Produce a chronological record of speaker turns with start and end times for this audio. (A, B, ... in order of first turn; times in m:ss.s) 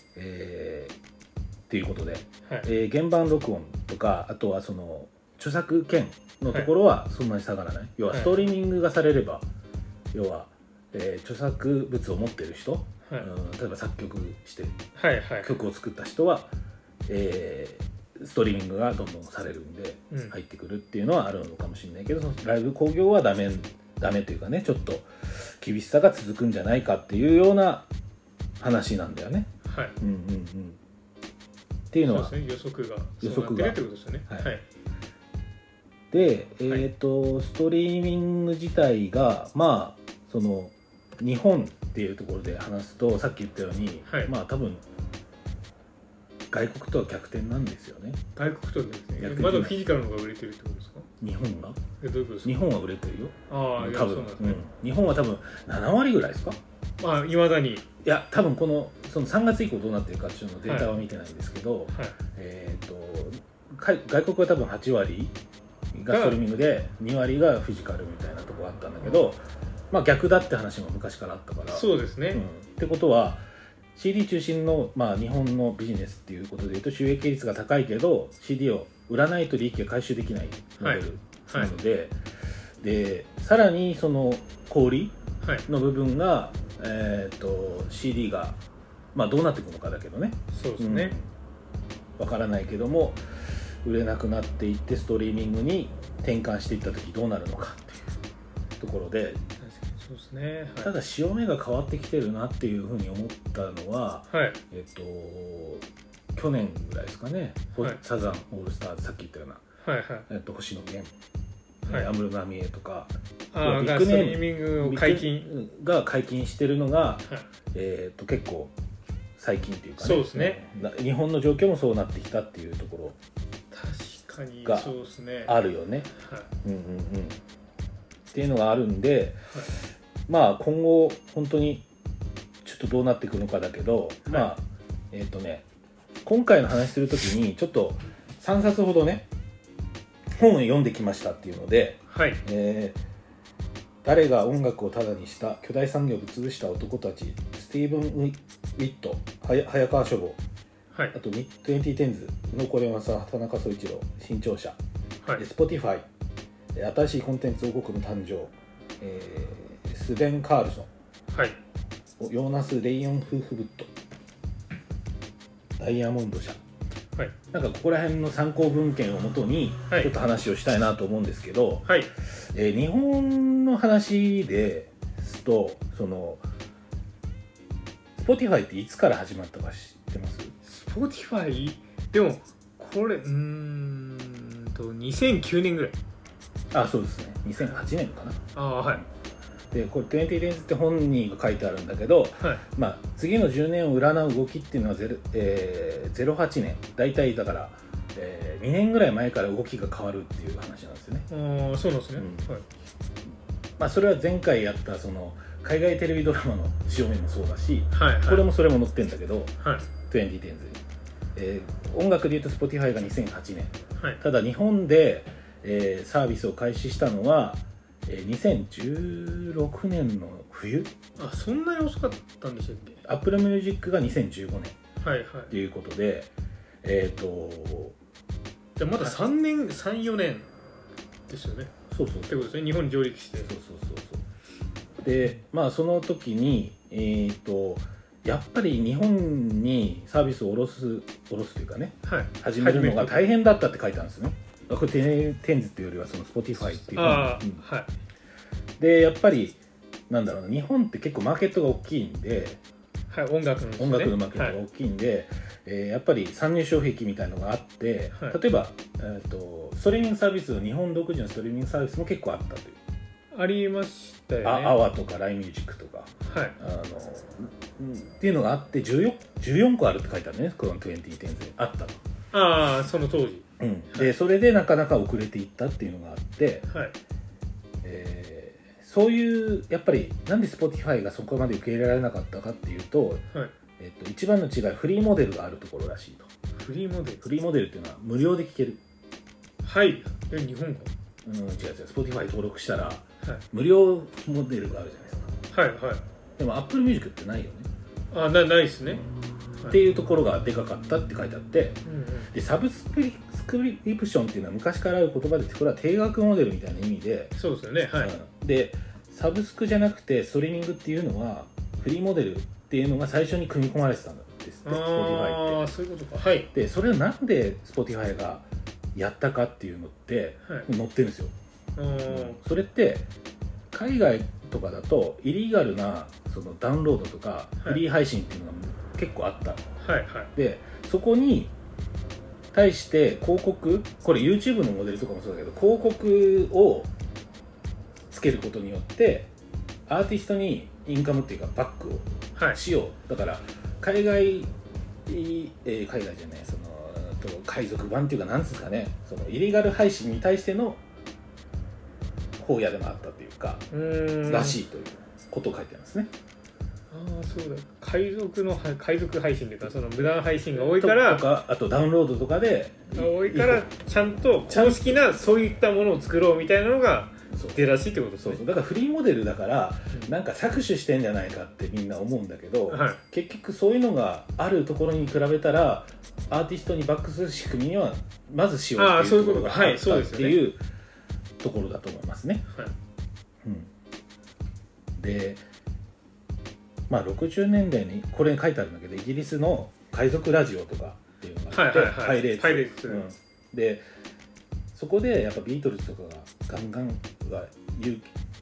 0:00.2-0:00.9 A
0:01.7-0:09.4 A
0:08.1-0:08.5 B
0:10.1-0:14.8 A
0:15.0-0:15.5 B
0:15.4-0:16.5 A
0:17.0-0:27.9 A
0:28.6-0:30.8 A
0:29.6-0:30.0 B
0:31.9-0:32.3 A
0:32.0-0:34.6 B
0:33.2-0:34.5 A
0:36.1-0:44.8 A
0:44.1-0:44.3 B
0:46.5-0:48.2 A
0:48.4-0:51.1 B
0:49.2-0:49.8 A
0:51.2-0:51.8 A
0:52.0-0:52.5 B
0:52.4-0:56.6 A
0:53.5-0:54.6 B
0:57.0-0:57.8 B
0:58.0-1:05.4 A
1:00.6-1:01.0 B
1:05.9-1:13.4 A
1:06.1-1:06.4 B
1:11.7-1:12.4 B
1:13.9-1:22.2 A
1:20.8-1:21.7 B
1:22.8-1:25.2 A
1:25.4-1:25.6 B
1:25.7-1:28.6 A
1:29.1-1:31.3 A
1:30.5-1:31.2 B
1:32.2-1:38.2 A
1:38.8-1:39.4 A
1:39.6-1:40.9 B
1:40.8-1:49.6 A
1:44.3-1:44.6 B
1:49.8-1:50.3 B
1:50.3-1:51.1 A
1:51.8-1:58.7 A
1:51.8-1:52.1 B
1:53.5-1:55.5 B
1:59.4-2:03.2 A
2:00.0-2:00.6 B
2:03.7-2:05.6 B
2:04.6-2:04.9 A
2:05.4-2:06.1 A
2:06.1-2:06.5 B
2:06.6-2:07.4 A
2:08.3-2:09.4 A
2:10.3-2:11.8 A
2:12.6-2:15.6 A
2:14.2-2:14.5 B
2:16.2-2:19.3 A
2:20.3-2:23.0 A
2:22.1-2:22.4 B
2:24.0-2:30.4 A
2:31.1-2:34.8 A
2:35.4-2:36.0 A
2:36.7-2:40.9 A
2:41.3-2:41.6 B
2:42.2-2:43.9 A
2:45.8-2:46.6 A
2:47.5-2:56.4 A
2:51.8-2:52.1 B
2:58.2-3:00.5 A
3:00.6-3:06.0 B
3:06.7-3:09.0 A
3:08.5-3:09.0 B
3:09.7-3:21.3 A
3:21.3-3:22.6 B
3:22.2-3:22.5 A
3:23.8-3:29.5 A
3:27.9-3:28.4 B
3:29.6-3:29.9 B
3:30.1-3:30.8 A
3:31.3-3:40.9 A
3:41.2-3:43.0 B
3:43.0-3:44.8 A
3:45.0-3:45.5 B
3:45.5-3:46.3 A
3:46.8-3:48.0 A
3:48.8-3:50.5 B
3:51.3-3:51.7 B
3:51.9-3:52.5 A
3:52.3-3:53.5 B
3:53.4-3:54.2 A
3:55.0-4:07.6 A
4:02.0-4:03.3 B
4:06.6-4:07.9 B
4:08.8-4:12.6 A
4:13.1-4:14.6 B
4:13.8-4:22.8 A
4:23.3-4:24.8 B
4:24.4-4:32.0 A
4:26.2-4:26.6 B
4:32.3-4:34.1 B
4:33.6-4:36.6 A
4:36.7-4:37.0 B
4:37.8-4:43.2 A
4:43.8-4:46.3 A
4:46.6-4:47.2 B
4:47.2-4:48.8 A
4:49.6-4:50.9 B
4:51.2-4:55.3 A
4:55.5-4:56.0 B
4:56.4-4:57.7 A
4:58.1-4:59.1 B
4:59.7-5:01.8 A
5:01.8-5:02.3 B
5:02.3-5:07.3 A
5:07.4-5:08.1 B
5:07.9-5:15.6 A
5:14.6-5:16.5 B
5:16.5-5:21.3 A
5:21.8-5:22.4 B
5:22.1-5:23.1 A
5:23.7-5:29.6 A
5:29.8-5:30.3 B
5:30.3-5:31.5 A
5:32.5-5:36.9 A
5:38.1-5:39.3 A
5:39.9-5:44.5 A
5:45.0-5:50.8 A
5:52.4-5:53.6 A
5:53.7-5:54.6 B
5:54.2-5:56.1 A
5:56.9-6:01.2 B
6:00.5-6:03.7 A
6:02.9-6:08.4 B
6:04.5-6:05.0 A
6:07.3-6:07.6 A
6:08.2-6:20.6 A
6:12.7-6:13.0 B
6:18.8-6:20.4 B
6:21.4-6:22.5 A
6:23.4-6:23.7 A
6:25.0-6:25.4 A
6:26.9-6:33.8 A
6:31.5-6:33.0 B
6:34.7-6:38.1 A